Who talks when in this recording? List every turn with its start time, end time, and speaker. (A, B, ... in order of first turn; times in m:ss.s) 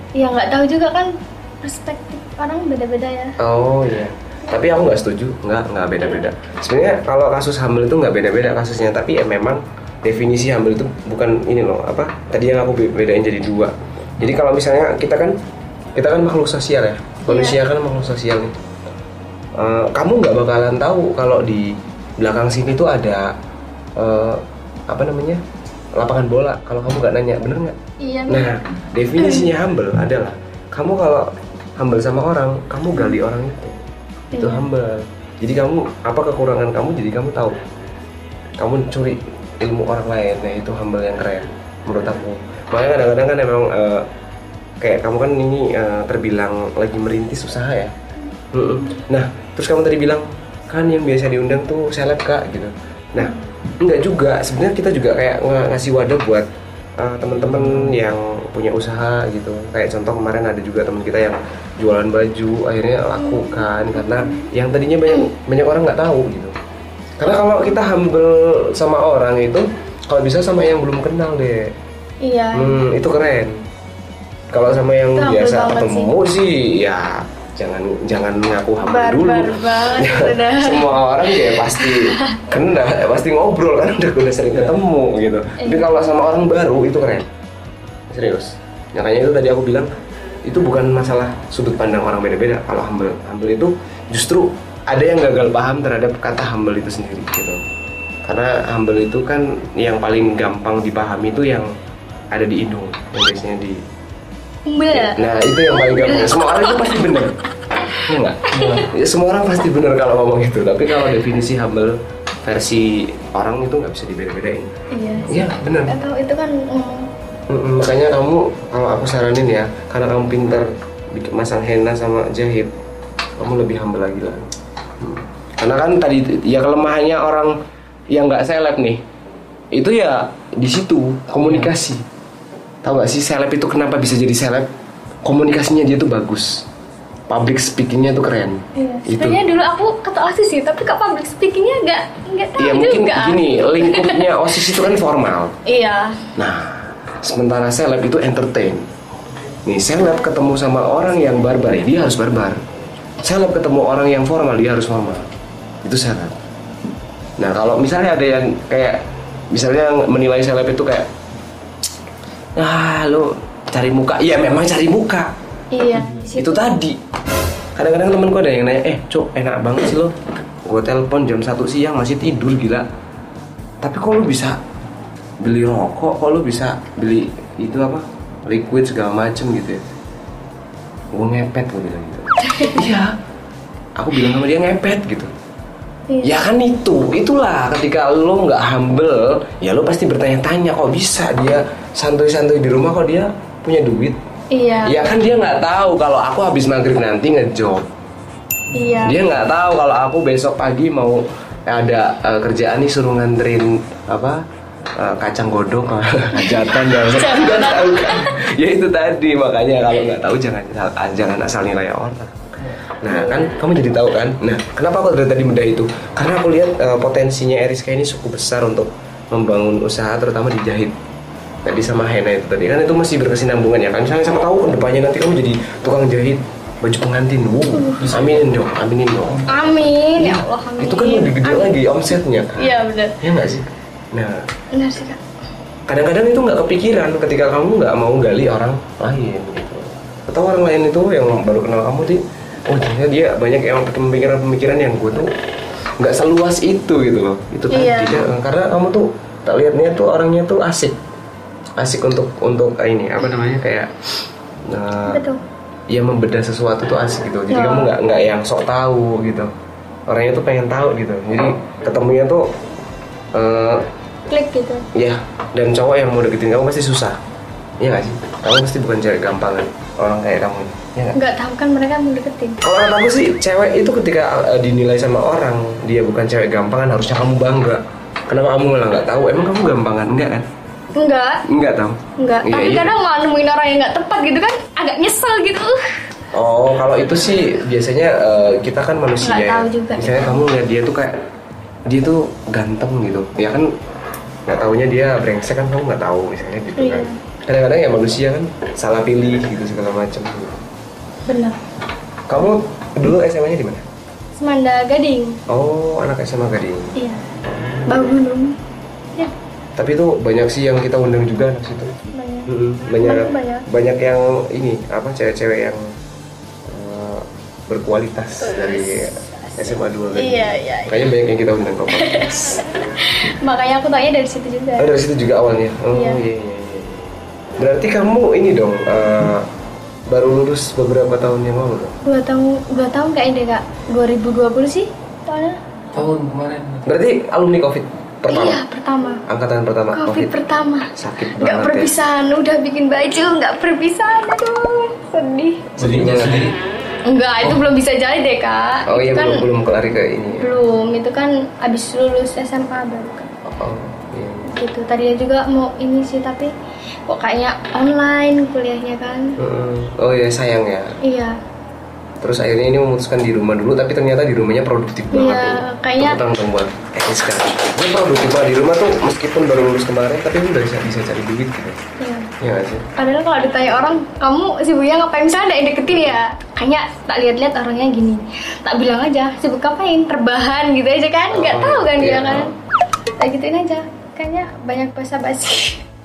0:00.2-0:03.4 A
0:03.4-0:15.4 B
0:16.0-0:18.6 B
0:17.3-0:17.6 A
0:19.6-0:23.3 B
0:24.0-0:25.4 B
0:26.0-0:27.8 B
0:28.0-0:28.6 A
0:28.3-0:33.8 B
0:29.2-0:29.5 A
0:34.3-0:34.7 A
0:34.4-0:37.6 B
0:38.6-0:44.1 B
0:44.8-0:47.9 B
0:48.5-1:06.6 B
0:57.5-0:57.9 C
1:03.2-1:04.5 A
1:07.2-1:11.8 B
1:12.2-1:12.8 A
1:12.5-1:13.6 B
1:14.5-1:27.3 B
1:15.2-1:16.1 A
1:18.8-1:20.9 A
1:21.8-1:22.4 A
1:25.6-1:25.9 A
1:28.1-1:29.9 B
1:30.4-1:37.6 B
1:38.2-1:41.7 B
1:42.3-1:43.8 B
1:44.7-1:46.9 A
1:44.9-1:47.4 B
1:48.0-1:56.0 B
1:48.5-1:48.9 C
1:48.5-1:48.8 A
1:54.9-1:57.1 A
1:57.5-2:02.7 B
2:03.4-2:07.6 B
2:08.1-2:09.0 B
2:09.7-2:12.0 B
2:11.4-2:11.7 C
2:12.8-2:14.7 B
2:15.2-2:16.7 B
2:17.3-2:19.4 B
2:18.8-2:24.8 A
2:22.6-2:25.6 B
2:25.6-2:26.3 A
2:26.4-2:28.9 B
2:29.6-2:32.6 B
2:33.2-2:35.3 B
2:35.8-2:36.4 B
2:37.4-2:41.1 B
2:42.6-2:45.3 B
2:45.7-2:46.7 A
2:46.3-2:47.0 B
2:47.8-2:52.9 B
2:53.8-2:54.6 B
2:55.4-2:59.8 B
3:01.1-3:03.2 B
3:02.5-3:02.8 A
3:04.0-3:05.3 B
3:06.1-3:06.4 A
3:06.2-3:14.2 B
3:14.5-3:15.0 A
3:14.8-3:17.9 B
3:18.7-3:19.0 C
3:18.7-3:19.2 A
3:19.0-3:24.4 B
3:25.0-3:41.0 B
3:26.4-3:28.4 A
3:33.1-3:33.4 A
3:41.6-3:49.5 B
3:47.7-3:48.0 A
3:48.0-3:48.5 C
3:49.5-3:53.2 A
3:50.2-3:54.4 B
3:54.7-3:55.2 A
3:55.9-4:05.3 B
4:06.0-4:11.0 B
4:07.7-4:08.3 A
4:11.8-4:13.9 B
4:14.6-4:15.3 B
4:15.1-4:15.4 A
4:15.9-4:19.5 B
4:17.5-4:17.9 A
4:20.1-4:22.5 B
4:23.3-4:23.9 B
4:24.3-4:24.9 A
4:24.9-4:27.2 B
4:27.8-4:31.2 B
4:31.1-4:32.6 A
4:32.6-4:40.5 B
4:40.9-4:41.4 A
4:41.5-4:42.9 B
4:42.2-4:46.0 A
4:46.3-4:51.2 B
4:49.2-4:50.4 A
4:51.9-4:53.7 B
4:54.5-5:00.6 B
4:56.8-4:57.2 A
5:01.3-5:01.6 A
5:02.3-5:03.8 B
5:04.4-5:05.4 A
5:05.5-5:06.9 B
5:07.0-5:07.2 A
5:07.9-5:08.6 A
5:09.8-5:15.8 B
5:12.1-5:13.7 A
5:16.6-5:22.6 B
5:18.4-5:21.1 A
5:21.9-5:25.0 A
5:24.8-5:29.5 B
5:25.9-5:26.2 A
5:30.1-5:32.0 B
5:32.0-5:35.6 A
5:35.9-5:36.9 C
5:36.9-5:38.6 B
5:38.3-5:39.2 A
5:39.3-5:40.4 B
5:39.9-5:45.7 A
5:40.9-5:41.9 B
5:45.8-5:46.5 B
5:45.8-5:46.6 C
5:47.1-5:49.4 A
5:48.9-5:50.5 B
5:50.4-5:53.3 A
5:53.5-5:54.5 B
5:54.5-5:56.5 A
5:57.1-5:59.3 A
5:59.4-6:01.0 B
6:01.0-6:01.4 A
6:02.2-6:11.8 B
6:05.1-6:06.2 A
6:12.0-6:12.3 A
6:12.4-6:12.9 B
6:13.0-6:22.5 A
6:21.3-6:22.6 B
6:23.2-6:25.8 A